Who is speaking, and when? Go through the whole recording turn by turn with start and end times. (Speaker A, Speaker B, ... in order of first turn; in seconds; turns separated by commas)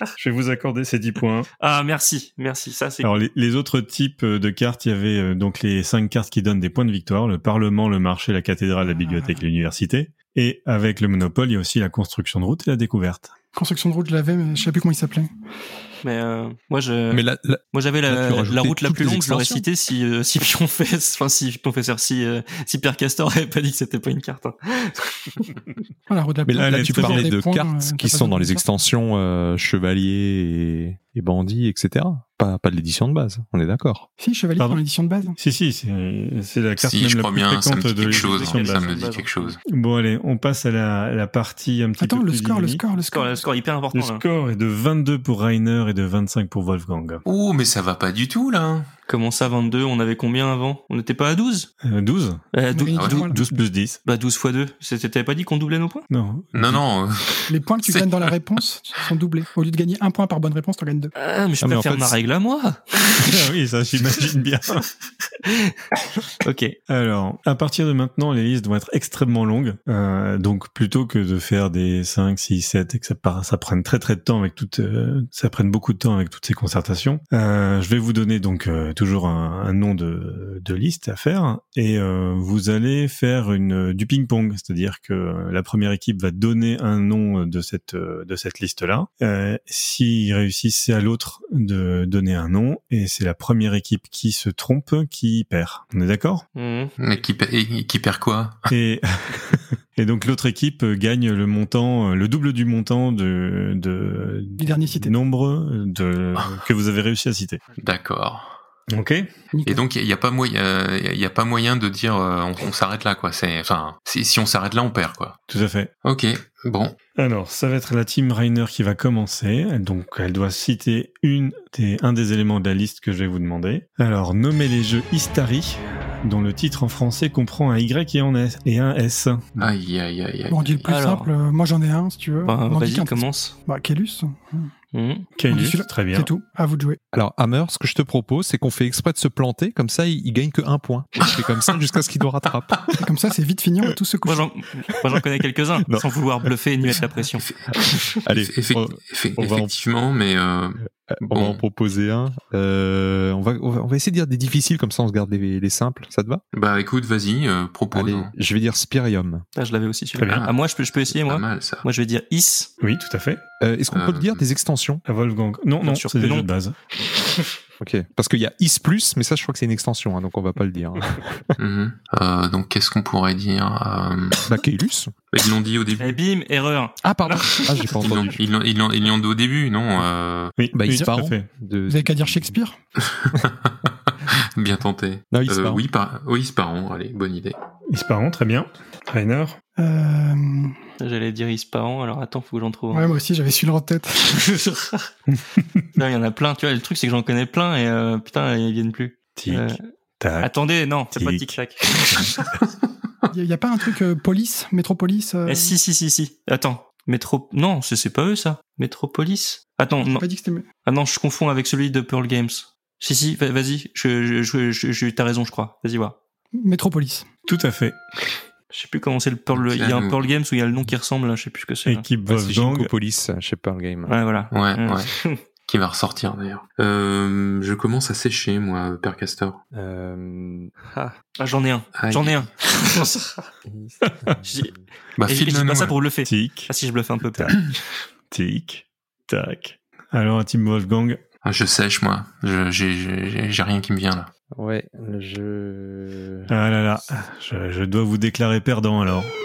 Speaker A: 0.2-1.5, Speaker B: 1.6-3.1, Speaker A: 3.0-13.3, Speaker C: 8.8-9.4, Speaker C: 13.5-15.3, Speaker B: 16.0-25.5, Speaker D: 17.1-19.6, Speaker C: 26.1-28.6, Speaker D: 26.5-34.1, Speaker A: 26.5-27.3, Speaker C: 34.2-35.4, Speaker A: 35.4-39.1, Speaker E: 36.8-39.6, Speaker B: 37.9-39.6, Speaker A: 39.6-42.8, Speaker C: 42.0-43.4, Speaker B: 42.9-44.2, Speaker A: 43.9-47.2, Speaker E: 47.2-48.9, Speaker B: 49.1-51.7, Speaker A: 51.8-52.4, Speaker B: 52.5-53.4, Speaker C: 52.7-53.4, Speaker E: 52.9-53.2, Speaker A: 53.2-54.0, Speaker B: 54.0-56.0, Speaker A: 56.1-56.8, Speaker E: 56.5-57.5, Speaker C: 57.5-61.1, Speaker B: 61.1-63.4, Speaker D: 61.6-62.1, Speaker A: 63.2-64.8, Speaker B: 65.4-65.8, Speaker B: 66.4-66.7, Speaker A: 66.9-96.4, Speaker B: 96.5-96.9, Speaker E: 97.0-98.7, Speaker A: 98.7-107.6, Speaker C: 104.6-105.1, Speaker E: 107.8-108.5, Speaker A: 108.9-109.3, Speaker C: 109.5-109.8, Speaker E: 109.6-115.4, Speaker A: 115.5-115.9, Speaker E: 116.0-117.0, Speaker A: 117.2-129.7, Speaker E: 129.6-130.9, Speaker C: 130.5-134.7, Speaker B: 130.8-131.3, Speaker B: 132.4-133.5, Speaker B: 134.9-135.3, Speaker A: 135.3-136.3, Speaker C: 135.5-137.0, Speaker D: 137.1-142.9, Speaker C: 143.0-144.4, Speaker B: 144.2-147.4, Speaker D: 145.8-146.1, Speaker D: 148.2-149.7, Speaker E: 148.3-151.6, Speaker D: 150.9-156.4, Speaker E: 156.5-158.3, Speaker D: 157.9-159.4, Speaker B: 159.5-162.7, Speaker A: 160.2-160.5, Speaker E: 160.2-160.5, Speaker E: 161.1-161.8, Speaker A: 162.8-163.4, Speaker D: 163.6-165.0, Speaker E: 163.9-164.5, Speaker A: 165.1-166.7, Speaker B: 165.8-166.5, Speaker B: 167.1-167.4, Speaker D: 167.8-171.4, Speaker E: 171.6-174.5, Speaker D: 174.4-175.1, Speaker E: 175.3-176.2, Speaker B: 176.0-178.3, Speaker D: 177.0-178.4, Speaker E: 177.9-180.5, Speaker A: 180.6-181.5, Speaker D: 180.7-182.6, Speaker C: 180.9-181.1, Speaker C: 181.9-182.8, Speaker E: 183.0-183.7, Speaker E: 184.6-187.6, Speaker D: 185.3-185.8, Speaker A: 187.9-189.6, Speaker C: 189.8-190.8, Speaker B: 191.0-193.1, Speaker C: 192.9-194.3, Speaker B: 194.3-195.1, Speaker A: 195.3-195.8, Speaker B: 195.9-199.8, Speaker A: 199.3-200.5, Speaker B: 200.4-202.5, Speaker A: 201.1-202.5, Speaker C: 203.3-205.7, Speaker B: 205.4-210.2, Speaker C: 210.0-210.7, Speaker B: 210.8-216.2, Speaker C: 216.5-217.3, Speaker A: 217.5-218.0, Speaker B: 218.7-222.1, Speaker E: 219.5-220.3, Speaker A: 221.8-222.9, Speaker D: 222.2-224.1, Speaker B: 224.1-225.4, Speaker E: 224.5-225.1, Speaker E: 225.6-229.6, Speaker D: 229.7-230.7, Speaker B: 230.9-233.5, Speaker E: 231.9-232.5, Speaker D: 233.7-234.8, Speaker A: 234.0-234.4, Speaker E: 235.2-236.0, Speaker B: 235.2-237.7, Speaker A: 236.2-236.7, Speaker A: 237.3-237.6, Speaker A: 238.3-241.2, Speaker E: 241.4-244.3, Speaker D: 244.6-246.5, Speaker A: 246.5-249.3